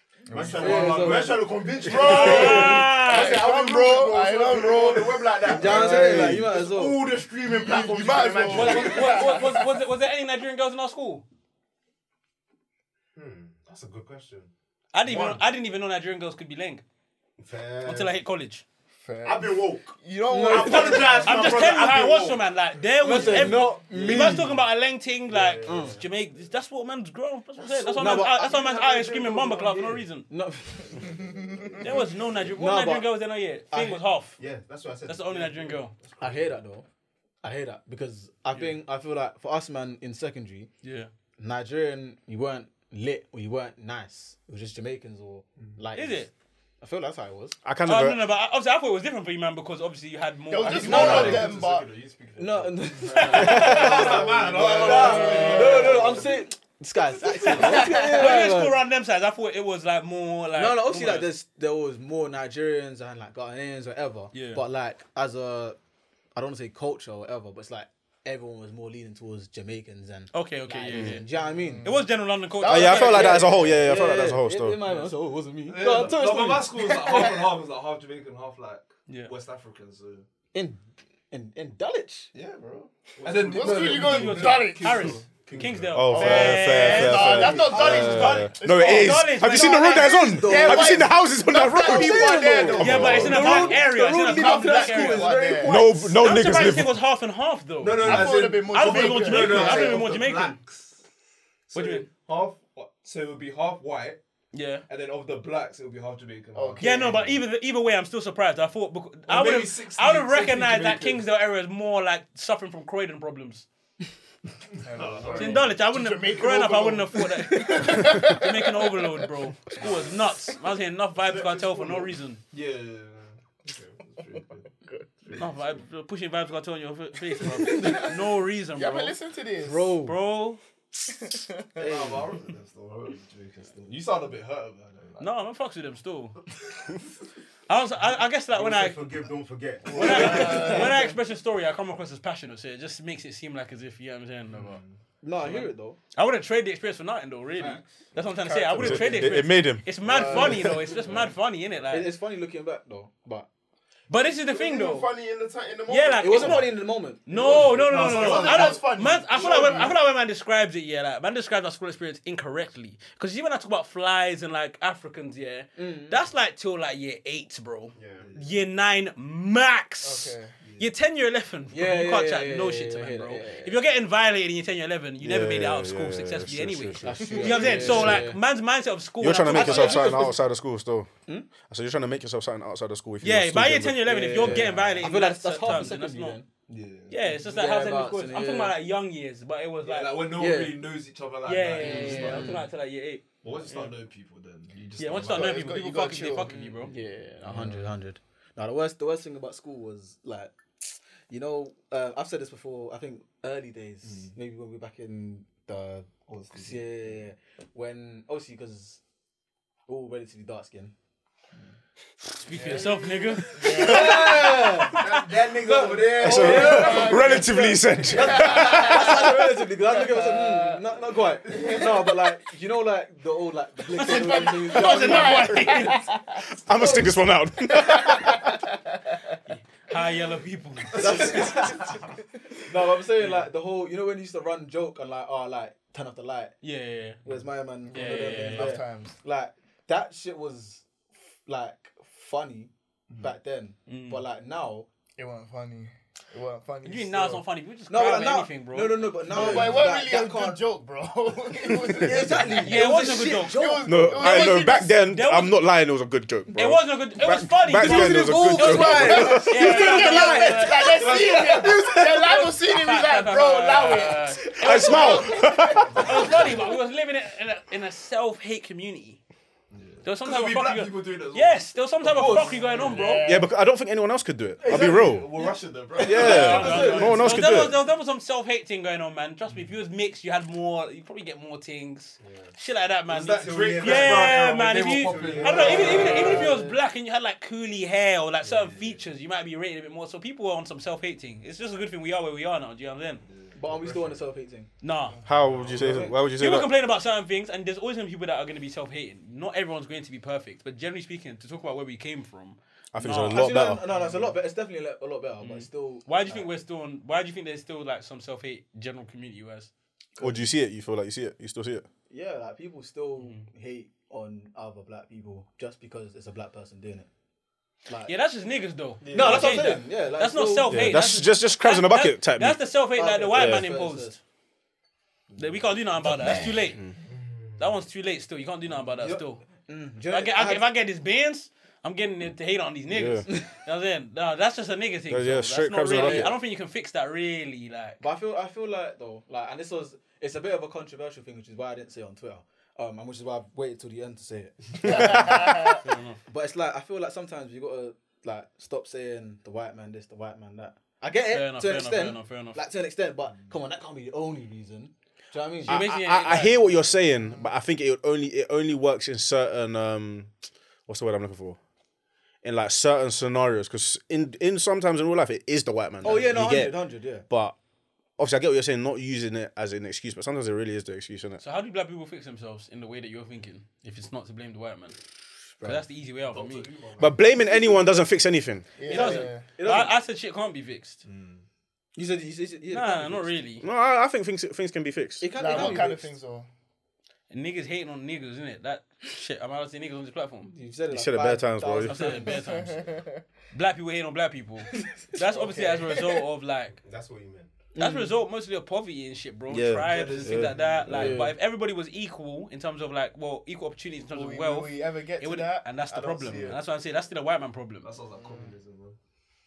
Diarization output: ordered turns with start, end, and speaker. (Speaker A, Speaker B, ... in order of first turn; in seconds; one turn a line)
Speaker A: 0.3-9.4
Speaker B: 0.3-1.0
Speaker C: 0.4-1.4
Speaker D: 0.5-1.5
Speaker E: 1.9-3.4
Speaker B: 1.9-5.4
Speaker D: 5.5-7.0
Speaker F: 5.5-6.5
Speaker B: 7.4-9.8
Speaker E: 8.5-11.2
Speaker A: 13.1-14.5
Speaker E: 14.9-16.8
Speaker A: 15.0-15.4
Speaker A: 17.4-18.1
Speaker E: 17.8-18.6
Speaker B: 19.0-21.4
Speaker A: 19.2-22.4
Speaker D: 20.3-21.2
Speaker E: 21.2-30.3
Speaker D: 23.0-24.5
Speaker C: 23.1-24.6
Speaker A: 23.9-24.3
Speaker A: 25.3-26.2
Speaker D: 25.6-26.0
Speaker A: 27.6-30.1
Speaker D: 28.0-28.4
Speaker D: 30.3-31.0
Speaker B: 31.0-32.0
Speaker A: 31.0-32.1
Speaker E: 31.8-34.4
Speaker D: 32.5-33.1
Speaker D: 33.7-34.0
Speaker A: 34.4-36.5
Speaker E: 35.0-35.9
Speaker D: 36.2-36.9
Speaker D: 37.4-40.7
Speaker E: 40.8-41.1
Speaker D: 41.4-46.3
Speaker E: 45.9-46.3
Speaker D: 46.8-47.6
Speaker F: 47.6-48.3
Speaker E: 47.9-51.5
Speaker B: 50.5-51.9
Speaker C: 50.6-56.4
Speaker D: 52.4-58.8
Speaker E: 53.0-54.2
Speaker B: 54.1-56.0
Speaker E: 55.0-55.6
Speaker E: 57.4-61.3
Speaker C: 57.4-57.9
Speaker B: 57.7-58.2
Speaker D: 60.5-65.8
Speaker E: 64.3-64.6
Speaker D: 66.3-71.9
Speaker E: 70.3-71.3
Speaker B: 71.4-73.8
Speaker E: 71.8-73.5
Speaker F: 72.7-74.8
Speaker D: 73.1-77.4
Speaker C: 75.6-80.3
Speaker E: 79.1-79.3
Speaker D: 80.5-82.3
Speaker C: 82.3-86.2
Speaker A: 83.2-84.0
Speaker B: 83.5-85.1
Speaker E: 83.8-87.7
Speaker F: 85.9-93.1
Speaker B: 86.1-95.8
Speaker C: 87.5-88.4
Speaker D: 87.8-88.4
Speaker E: 88.6-90.2
Speaker D: 89.5-91.1
Speaker D: 91.7-96.2
Speaker C: 92.5-93.7
Speaker E: 92.8-100.6
Speaker F: 95.6-97.0
Speaker C: 97.8-101.0
Speaker B: 98.0-100.0
Speaker D: 99.5-99.9
Speaker C: 101.7-104.2
Speaker E: 101.7-102.1
Speaker E: 104.5-104.8
Speaker C: 104.9-107.4
Speaker B: 106.5-107.3
Speaker E: 106.8-113.7
Speaker C: 109.3-111.2
Speaker C: 114.8-115.8
Speaker B: 114.8-119.8
Speaker E: 115.3-122.4
Speaker A: 121.2-122.1
Speaker C: 122.5-125.8
Speaker E: 125.4-129.2
Speaker B: 127.5-128.2
Speaker D: 127.7-128.1
Speaker B: 128.7-130.0
Speaker D: 129.6-130.2
Speaker E: 130.1-130.6
Speaker B: 131.1-131.9
Speaker D: 131.8-132.3
Speaker C: 131.8-135.3
Speaker E: 135.2-136.4
Speaker E: 137.7-139.1
Speaker A: 138.5-140.7
Speaker D: 139.9-141.1
Speaker E: 139.9-144.8
Speaker B: 140.0-141.0
Speaker C: 144.5-145.0
Speaker D: 145.2-146.0
Speaker E: 145.4-152.1
Speaker D: 147.6-149.4
Speaker F: 148.8-149.9
Speaker B: 150.0-150.9
Speaker D: 150.1-151.3
Speaker C: 150.9-151.3
Speaker D: 151.9-153.5
Speaker E: 154.1-155.1
Speaker A: 154.4-156.7
Speaker E: 155.9-156.7
Speaker D: 156.2-157.3
Speaker E: 157.2-180.2
Speaker C: 157.3-159.9
Speaker A: 157.4-158.6
Speaker B: 157.9-160.0
Speaker D: 165.8-166.2
Speaker A: 167.9-168.3
Speaker C: 168.2-168.6
Speaker B: 170.0-170.6
Speaker C: 170.6-170.9
Speaker D: 171.7-173.8
Speaker F: 175.2-178.2
Speaker D: 177.0-178.4
Speaker F: 179.2-181.1
Speaker D: 179.3-180.4
Speaker F: 181.7-184.8
Speaker E: 183.2-186.4
Speaker D: 184.0-186.5
Speaker C: 186.7-187.3
Speaker E: 187.1-190.2
Speaker D: 187.4-188.7
Speaker C: 189.8-192.7
Speaker D: 190.3-190.8
Speaker E: 191.4-193.9
Speaker D: 191.8-192.7
Speaker C: 193.4-195.7
Speaker E: 195.0-196.9
Speaker B: 195.3-196.6
Speaker D: 196.4-209.0
Speaker C: 204.0-204.3
Speaker C: 206.3-207.2
Speaker D: 209.9-210.9
Speaker E: 212.3-214.1
Speaker B: 212.5-214.6
Speaker D: 213.6-215.0
Speaker C: 213.9-214.6
Speaker A: 214.9-217.0
Speaker C: 215.6-216.8
Speaker D: 215.7-225.8
Speaker F: 216.2-219.2
Speaker B: 216.3-220.8
Speaker B: 223.9-226.4
Speaker E: 223.9-226.0
Speaker F: 226.5-228.4
Speaker D: 226.7-227.4
Speaker B: 227.8-228.6
Speaker E: 229.5-231.8
Speaker C: 230.8-231.9
Speaker D: 231.0-232.0
Speaker D: 232.7-236.6
Speaker C: 233.2-233.4
Speaker E: 236.6-237.2
Speaker D: 237.2-240.8
Speaker B: 237.9-239.1
Speaker E: 237.9-238.8
Speaker D: 241.4-244.9
Speaker E: 243.9-244.2
Speaker B: 245.2-247.4
Speaker E: 246.8-249.1
Speaker D: 247.9-250.6
Speaker B: 249.3-254.9
Speaker D: 251.9-254.1
Speaker E: 252.6-255.6
Speaker F: 253.8-259.9
Speaker E: 256.5-261.4
Speaker D: 257.8-261.4
Speaker B: 258.6-266.6
Speaker C: 261.0-261.7
Speaker E: 261.9-269.2
Speaker F: 264.6-266.0
Speaker C: 265.7-266.6
Speaker C: 269.7-273.2
Speaker E: 270.0-273.2
Speaker D: 272.1-273.2
Speaker B: 272.9-273.5
Speaker F: 273.2-275.3
Speaker D: 274.6-277.5
Speaker C: 274.6-277.2
Speaker F: 276.0-277.8
Speaker E: 276.1-293.2
Speaker A: 282.2-282.5
Speaker C: 283.1-286.6
Speaker A: 283.4-286.4
Speaker D: 285.5-286.8
Speaker C: 288.5-289.0
Speaker C: 293.2-294.3
Speaker D: 293.5-294.7
Speaker E: 294.8-295.2
Speaker C: 295.2-296.1
Speaker F: 295.2-296.7
Speaker D: 295.8-296.1
Speaker E: 296.3-303.7
Speaker F: 302.9-303.8
Speaker D: 303.3-306.4
Speaker C: 303.9-304.4
Speaker E: 305.4-309.7
Speaker D: 310.1-310.4
Speaker F: 310.2-311.9
Speaker D: 312.1-317.1
Speaker D: 317.9-318.1
Speaker E: 318.0-324.2
Speaker C: 319.0-319.8
Speaker D: 319.1-321.1
Speaker F: 320.7-322.6
Speaker D: 322.9-324.2
Speaker F: 323.3-323.7
Speaker C: 325.3-325.7
Speaker E: 325.4-326.8
Speaker A: 327.1-327.7
Speaker E: 327.6-329.4
Speaker C: 328.8-329.3
Speaker D: 329.7-330.6
Speaker E: 330.1-338.0
Speaker F: 332.9-333.3
Speaker F: 335.1-336.4
Speaker D: 335.9-336.3
Speaker D: 338.0-345.3
Speaker B: 344.8-345.8
Speaker F: 344.8-345.4
Speaker E: 345.0-346.2
Speaker D: 346.3-355.8
Speaker E: 351.2-352.6
Speaker E: 355.7-356.6
Speaker F: 355.7-360.3
Speaker F: 360.9-361.6
Speaker F: 362.4-367.6
Speaker D: 366.0-367.2
Speaker F: 368.2-371.4
Speaker E: 371.4-375.0
Speaker D: 375.6-375.8
Speaker E: 375.6-376.7
Speaker C: 376.2-377.4
Speaker F: 377.0-378.7
Speaker B: 378.8-379.4
Speaker E: 378.9-381.0
Speaker D: 378.9-379.9
Speaker C: 381.0-381.4
Speaker D: 381.9-383.3
Speaker E: 382.7-383.6
Speaker F: 383.6-385.8
Speaker D: 385.2-386.1
Speaker B: 385.3-386.5
Speaker E: 387.3-390.5
Speaker D: 390.4-392.4
Speaker F: 390.9-392.1
Speaker E: 391.9-392.8
Speaker B: 392.2-393.2
Speaker E: 393.5-396.8
Speaker B: 395.1-396.2
Speaker A: 396.8-397.5
Speaker D: 397.7-398.2
Speaker E: 397.8-407.9
Speaker F: 399.5-401.2
Speaker C: 399.8-401.1
Speaker D: 400.9-401.4
Speaker B: 404.1-406.6
Speaker C: 407.8-409.0